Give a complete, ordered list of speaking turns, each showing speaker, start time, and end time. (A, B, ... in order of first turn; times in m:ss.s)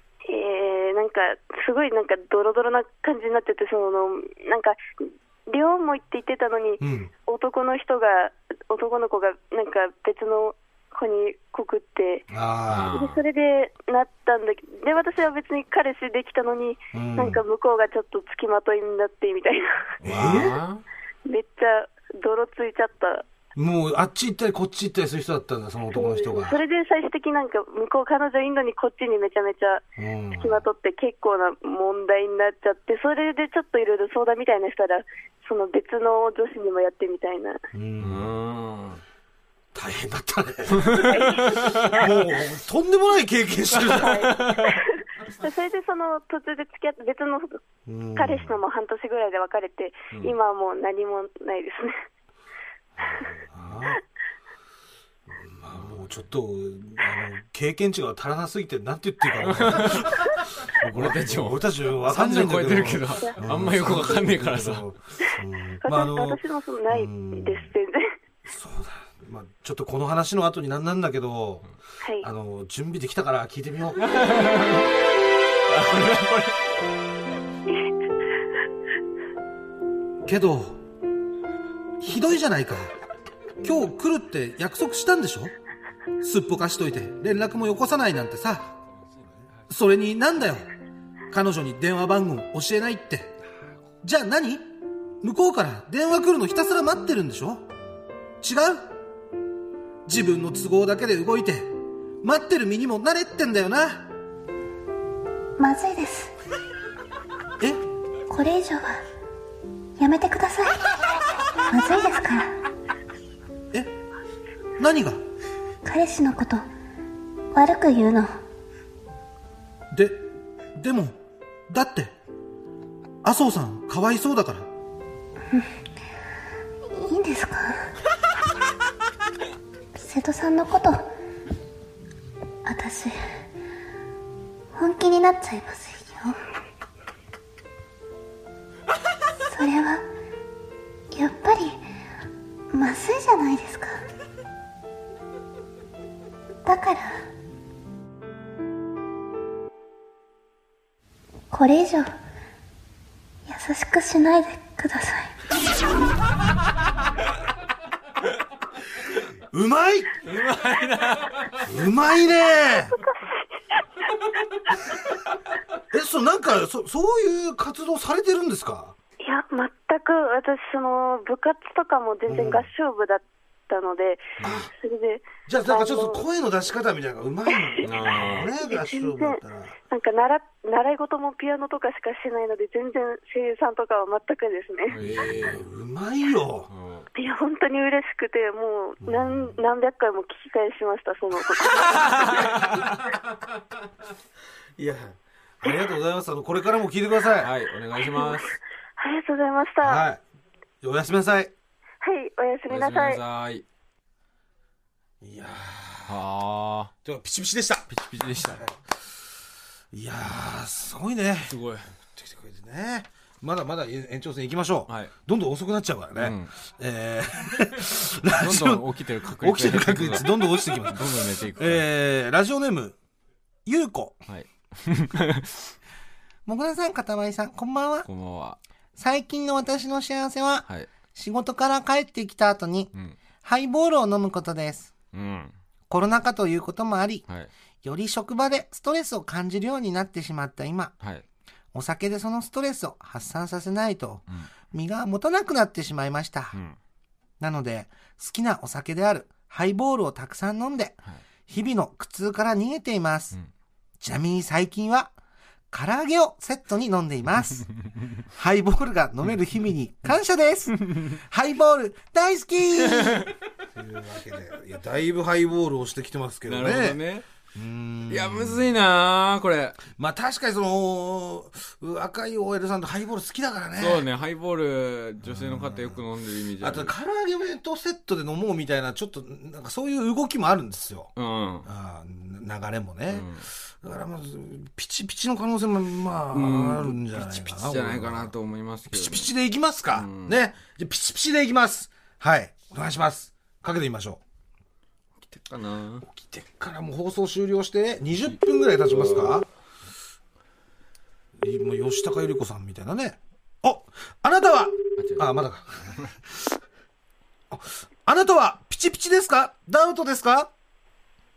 0:00.2-0:04.8 A
0:05.5-0:12.3 A
0:06.8-0:07.1 B
0:12.3-0:12.9 B
0:12.7-0:13.2 C
0:12.9-0:19.9 A
0:16.9-0:17.4 B
0:20.0-0:20.8 C
0:20.0-0:20.6 B
0:21.2-0:23.2 A
0:23.6-0:26.6 B
0:25.9-0:29.8 A
0:30.0-0:30.6 B
0:30.4-0:37.6 A
0:37.7-0:38.3 B
0:38.0-0:39.0 C
0:39.8-0:44.1 B
0:40.9-0:41.6 C
0:41.0-0:41.8 A
0:43.7-0:47.6 A
0:47.9-0:48.6 B
0:48.2-0:51.9 A
0:53.1-0:54.0 B
0:55.3-1:07.7 B
0:59.5-1:00.1 C
1:00.9-1:04.8 C
1:02.5-1:04.2 A
1:05.8-1:08.1 A
1:08.5-1:11.7 B
1:12.2-1:14.0 B
1:14.1-1:14.8 C
1:15.7-1:16.6 C
1:20.3-1:20.8 B
1:22.0-1:22.9 B
1:23.6-1:25.5 B
1:26.2-1:28.8 B
1:29.7-1:30.7 B
1:31.3-1:33.4 B
1:34.0-1:34.6 B
1:35.2-1:37.7 B
1:38.4-1:38.9 B
1:40.1-1:44.1 B
1:45.6-1:46.3 D
1:48.3-1:49.0 D
1:50.0-1:50.8 D
1:51.7-1:52.6 D
1:54.8-1:55.2 B
1:55.8-1:56.7 D
1:57.5-1:58.4 D
1:59.9-2:00.2 B
2:00.8-2:01.2 B
2:01.7-2:02.1 B
2:03.2-2:04.7 B
2:06.9-2:07.9 D
2:10.0-2:11.1 D
2:12.7-2:13.2 D
2:14.8-2:16.4 D
2:19.5-2:20.1 D
2:21.1-2:21.8 D
2:22.7-2:24.0 D
2:26.6-2:27.2 D
2:31.5-2:32.1 D
2:33.5-2:35.3 D
2:39.5-2:40.2 B
2:40.2-2:41.6 C
2:41.6-2:42.9 B
2:43.0-2:43.8 A
2:45.9-2:49.0 B
2:49.2-2:56.3 A
2:52.3-2:52.7 B
2:54.4-2:54.7 B
2:55.5-2:59.7 B
2:57.5-2:57.9 A
2:57.8-2:58.5 C
2:58.6-3:05.0 A
3:04.9-3:05.6 C
3:05.2-3:06.7 B
3:06.7-3:07.1 C
3:07.2-3:12.6 A
3:09.0-3:09.5 B
3:12.4-3:12.7 C
3:14.8-3:17.5 B
3:17.4-3:18.6 C
3:18.2-3:18.4 A
3:19.0-3:20.1 A
3:19.8-3:20.2 B
3:20.8-3:21.5 B
3:22.0-3:23.2 A
3:22.7-3:23.6 C
3:25.2-3:26.2 B
3:26.1-3:26.9 C
3:27.0-3:27.9 B
3:27.9-3:28.6 C
3:29.9-3:31.6 B
3:31.4-3:31.9 C
3:32.1-3:43.0 B
3:34.9-3:35.1 C
3:36.2-3:36.5 C
3:38.4-3:41.8 C
3:43.7-3:44.2 B
3:44.3-3:45.6 C
3:46.5-3:48.1 E
3:48.0-3:48.6 C
3:49.0-3:54.9 E
3:55.1-3:55.6 C
3:55.9-3:57.2 E
3:57.8-4:00.9 E
4:01.7-4:06.6 E
4:07.4-4:13.4 E
4:14.0-4:15.1 E
4:15.7-4:17.7 E
4:18.3-4:23.3 E
4:22.8-4:23.3 C
4:23.8-4:27.0 B
4:26.5-4:27.3 C
4:27.6-4:28.7 B
4:28.1-4:29.8 C
4:30.0-4:34.1 B
4:33.8-4:36.9 C
4:35.2-4:36.0 B
4:36.6-4:41.1 B
4:41.2-4:41.7 C
4:41.6-4:48.3 B
4:43.1-4:43.5 C
4:46.3-4:49.3 C
4:48.9-4:54.2 B
4:49.9-4:50.4 C
4:55.3-4:56.0 C
4:56.0-4:59.5 B
4:58.9-4:59.4 C
5:01.4-5:06.5 B
5:05.0-5:05.4 C
5:07.5-5:10.5 B